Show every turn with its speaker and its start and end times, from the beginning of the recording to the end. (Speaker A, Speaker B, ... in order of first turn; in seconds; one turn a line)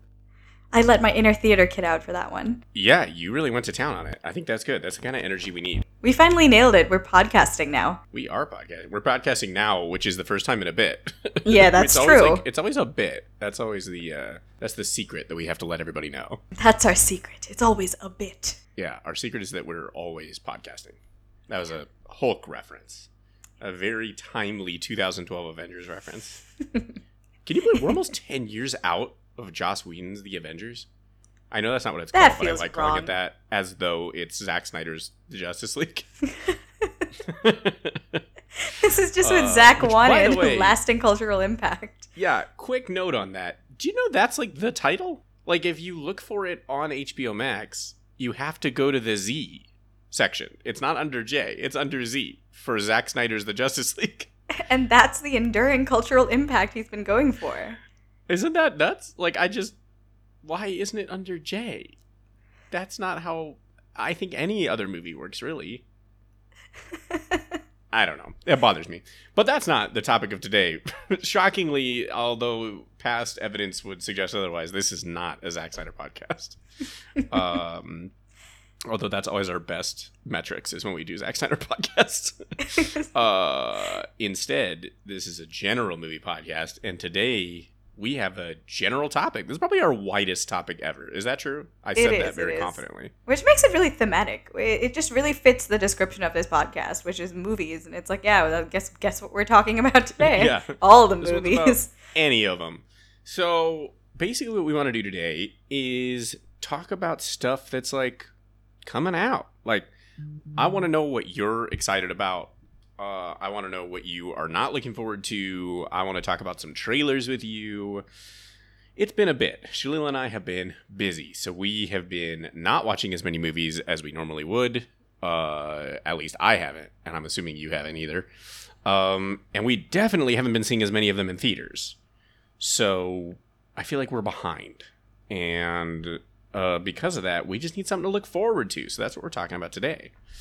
Speaker A: 0.7-2.6
Speaker B: 2.7-5.8
Speaker A: 6.0-8.0
Speaker B: 8.1-16.4
Speaker A: 11.4-12.4
Speaker A: 16.5-18.6
Speaker B: 18.8-23.1
Speaker B: 23.6-26.4
Speaker B: 27.4-30.9
Speaker B: 31.5-36.1
Speaker A: 32.1-33.1
Speaker A: 36.4-37.0
Speaker B: 37.2-38.2
Speaker A: 38.6-42.1
Speaker B: 39.2-40.8
Speaker B: 42.1-54.3
Speaker A: 54.6-57.8
Speaker B: 58.3-59.8
Speaker B: 60.4-61.9
Speaker B: 62.7-65.8
Speaker B: 67.9-76.6
Speaker B: 77.1-78.1
Speaker B: 78.9-93.1
Speaker A: 82.7-83.0
Speaker A: 92.0-101.9
Speaker B: 100.2-108.3
Speaker B: 108.8-109.9
Speaker B: 110.5-118.0
Speaker B: 119.0-128.3
Speaker B: 128.8-131.9
Speaker B: 132.6-140.1